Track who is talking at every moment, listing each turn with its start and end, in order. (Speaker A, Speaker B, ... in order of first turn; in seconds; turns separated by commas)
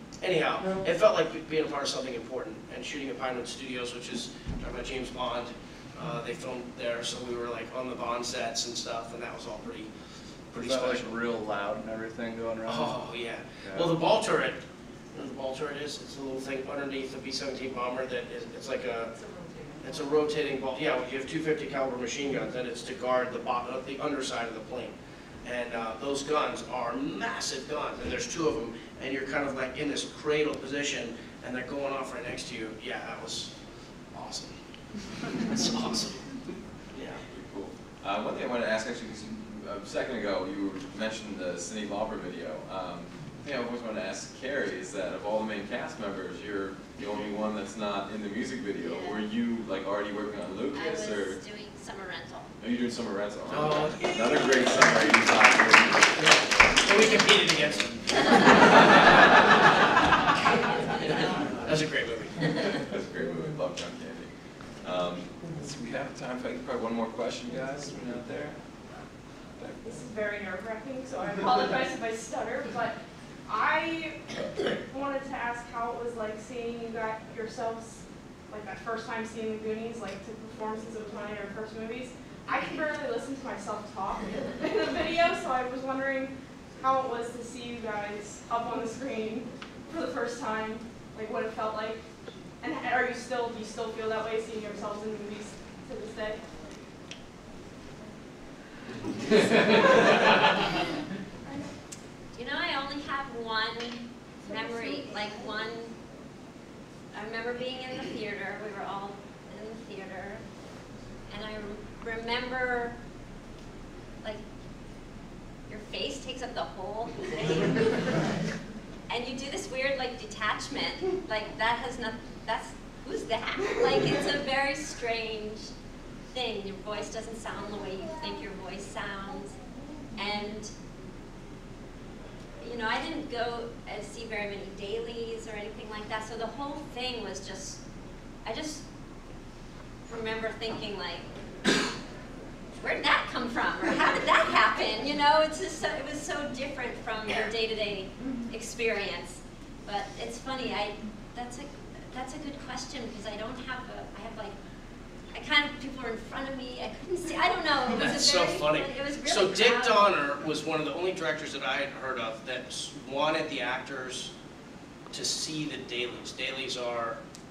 Speaker A: 0.2-9.9, Speaker B: 10.5-13.1, Speaker A: 10.5-11.2, Speaker A: 12.7-14.6, Speaker B: 13.7-13.9, Speaker A: 15.1-19.1, Speaker A: 19.8-33.5, Speaker A: 34.1-34.5, Speaker A: 35.4-36.2, Speaker A: 36.9-37.2, Speaker C: 37.2-51.4, Speaker D: 48.8-49.2, Speaker D: 50.7-52.5, Speaker C: 52.6-56.2, Speaker A: 53.5-54.8, Speaker A: 56.2-58.6, Speaker A: 61.0-62.5, Speaker C: 62.8-64.3, Speaker C: 64.8-68.8, Speaker E: 69.8-74.2, Speaker E: 74.8-92.0, Speaker E: 92.6-96.4, Speaker D: 102.3-105.9, Speaker D: 107.1-110.4, Speaker D: 111.3-113.0, Speaker D: 115.7-118.3, Speaker D: 119.1-125.7, Speaker D: 126.3-129.6, Speaker D: 130.2-130.7, Speaker D: 132.6-137.8, Speaker D: 138.4-138.8, Speaker D: 140.1-141.3, Speaker D: 142.8-154.6, Speaker D: 155.3-160.2, Speaker A: 157.9-164.3, Speaker A: 165.1-167.2